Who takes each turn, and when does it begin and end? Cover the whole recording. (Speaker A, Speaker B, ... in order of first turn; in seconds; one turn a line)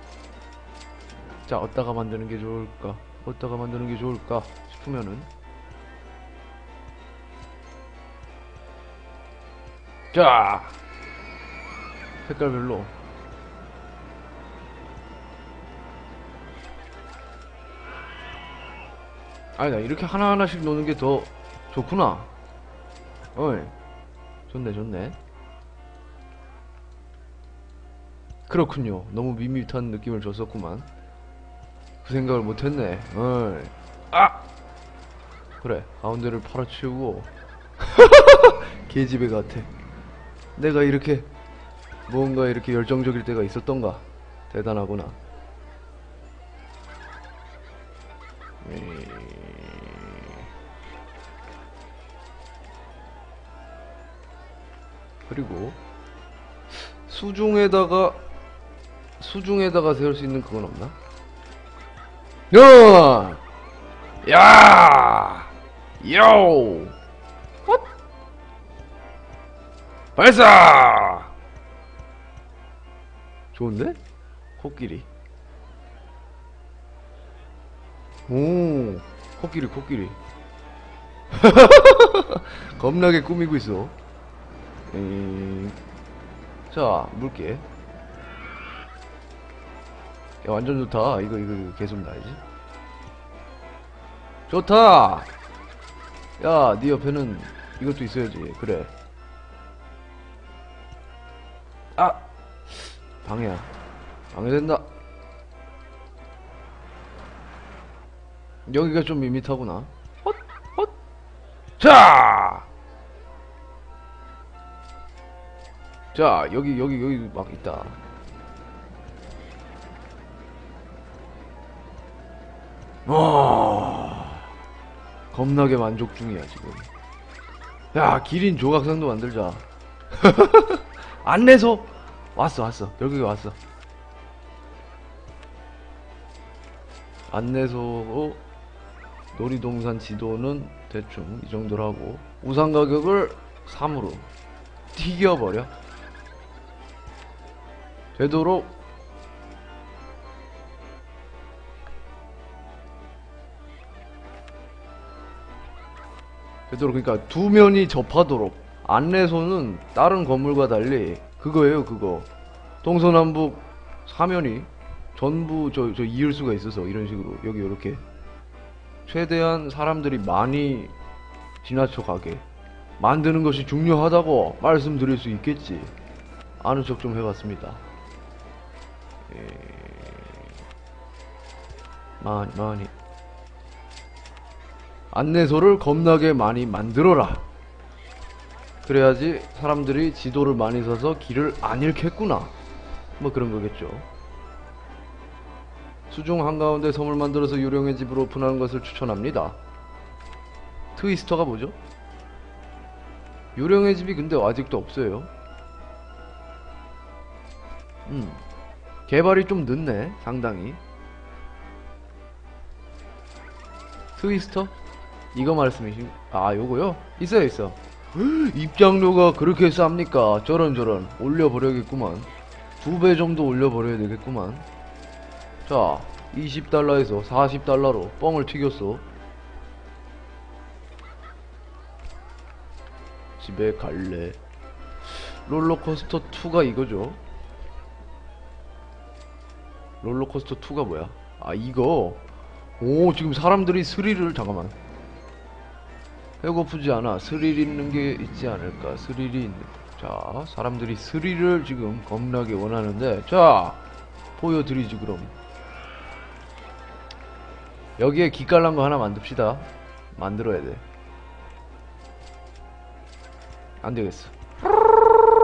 Speaker A: 1.5-5.3
Speaker A: 10.1-10.7
Speaker A: 12.2-12.9
Speaker A: 19.6-22.3
Speaker A: 23.3-23.7
Speaker A: 24.5-25.1
Speaker A: 28.5-30.9
Speaker A: 32.0-34.4
Speaker A: 35.6-39.7
Speaker A: 40.5-41.3
Speaker A: 42.1-45.2
Speaker A: 48.6-50.4
Speaker A: 55.3-55.8
Speaker A: 56.7-58.2
Speaker A: 59.2-61.0
Speaker A: 62.5-63.4
Speaker A: 64.2-66.9
Speaker A: 70.2-71.3
Speaker A: 73.5-74.0
Speaker A: 74.6-75.1
Speaker A: 78.3-80.2
Speaker A: 81.3-83.9
Speaker A: 84.9-85.8
Speaker A: 86.7-87.6
Speaker A: 90.4-92.4
Speaker A: 94.5-95.3
Speaker A: 96.4-98.9
Speaker A: 102.0-103.7
Speaker A: 104.3-104.8
Speaker A: 108.7-110.9
Speaker A: 111.8-112.7
Speaker A: 116.1-118.0
Speaker A: 123.0-124.4
Speaker A: 125.3-126.9
Speaker A: 127.9-133.6
Speaker A: 137.3-138.4
Speaker A: 139.3-144.3
Speaker A: 144.9-145.7
Speaker A: 148.2-148.7
Speaker A: 156.7-162.3
Speaker A: 162.8-168.0
Speaker A: 169.1-170.9
Speaker A: 171.6-172.4
Speaker A: 173.0-175.9
Speaker A: 176.6-177.8
Speaker A: 179.3-180.4
Speaker A: 182.2-182.9
Speaker A: 185.1-187.4
Speaker A: 188.8-192.5
Speaker A: 193.2-194.1
Speaker A: 196.1-199.6
Speaker A: 200.9-201.7
Speaker A: 203.6-205.3
Speaker A: 208.1-208.4
Speaker A: 209.1-210.8
Speaker A: 214.2-214.7
Speaker A: 215.3-224.7
Speaker A: 225.7-229.0
Speaker A: 233.4-234.4
Speaker A: 235.1-237.2
Speaker A: 240.0-242.2
Speaker A: 242.8-244.7
Speaker A: 246.4-253.8
Speaker A: 254.4-255.3
Speaker A: 258.0-260.8
Speaker A: 263.8-264.3